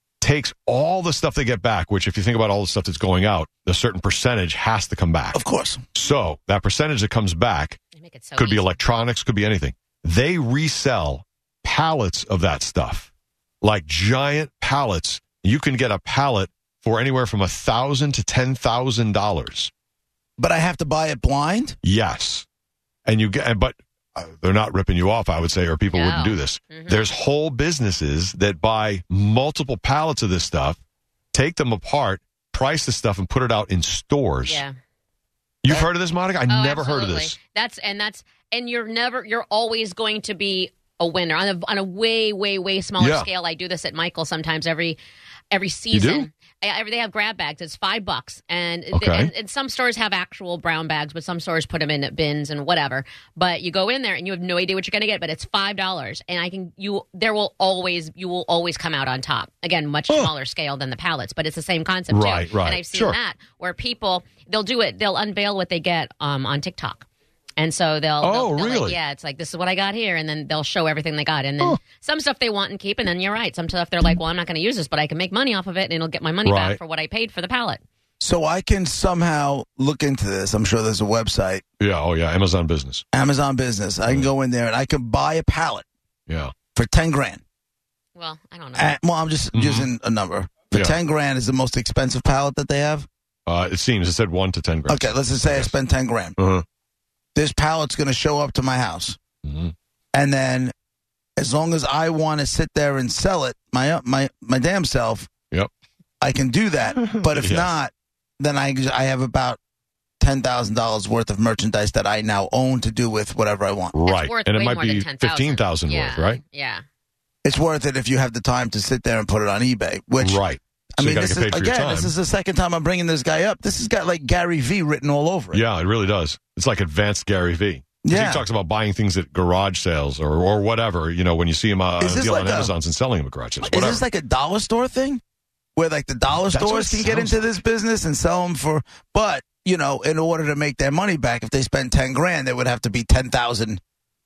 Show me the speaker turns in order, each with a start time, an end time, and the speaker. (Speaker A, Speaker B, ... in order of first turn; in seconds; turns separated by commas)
Speaker A: 0.2-5.4, Speaker B: 5.3-5.8, Speaker A: 5.9-7.8, Speaker C: 7.9-8.8, Speaker A: 8.4-13.1, Speaker A: 13.6-19.7, Speaker B: 20.4-21.8, Speaker A: 21.8-22.5, Speaker A: 23.1-30.8, Speaker C: 25.9-27.0, Speaker A: 31.3-34.6, Speaker C: 34.4-34.8, Speaker A: 35.6-37.4, Speaker C: 36.5-45.0, Speaker A: 43.0-43.3, Speaker C: 45.5-67.1, Speaker A: 45.9-46.3, Speaker A: 48.9-49.3, Speaker A: 62.1-63.2, Speaker C: 67.6-77.8, Speaker A: 68.2-69.0, Speaker A: 76.4-76.8, Speaker B: 78.2-81.6, Speaker A: 81.8-83.0, Speaker B: 83.1-85.9, Speaker A: 86.3-86.5, Speaker B: 86.8-87.4, Speaker C: 88.2-89.0, Speaker B: 88.8-93.1, Speaker A: 89.5-89.9, Speaker A: 93.5-95.7, Speaker B: 94.9-96.4, Speaker A: 96.4-96.6, Speaker B: 97.3-99.2, Speaker A: 99.4-99.7, Speaker B: 100.1-100.7, Speaker B: 101.4-105.3, Speaker B: 106.2-109.6, Speaker A: 107.1-107.8, Speaker B: 110.2-114.0, Speaker A: 113.9-116.4, Speaker C: 114.0-116.8, Speaker B: 117.4-120.4, Speaker A: 120.2-122.1, Speaker B: 121.0-125.6, Speaker A: 125.5-134.0, Speaker B: 128.0-128.5, Speaker B: 132.0-132.7, Speaker B: 133.6-135.2, Speaker B: 135.8-143.8, Speaker A: 136.5-137.4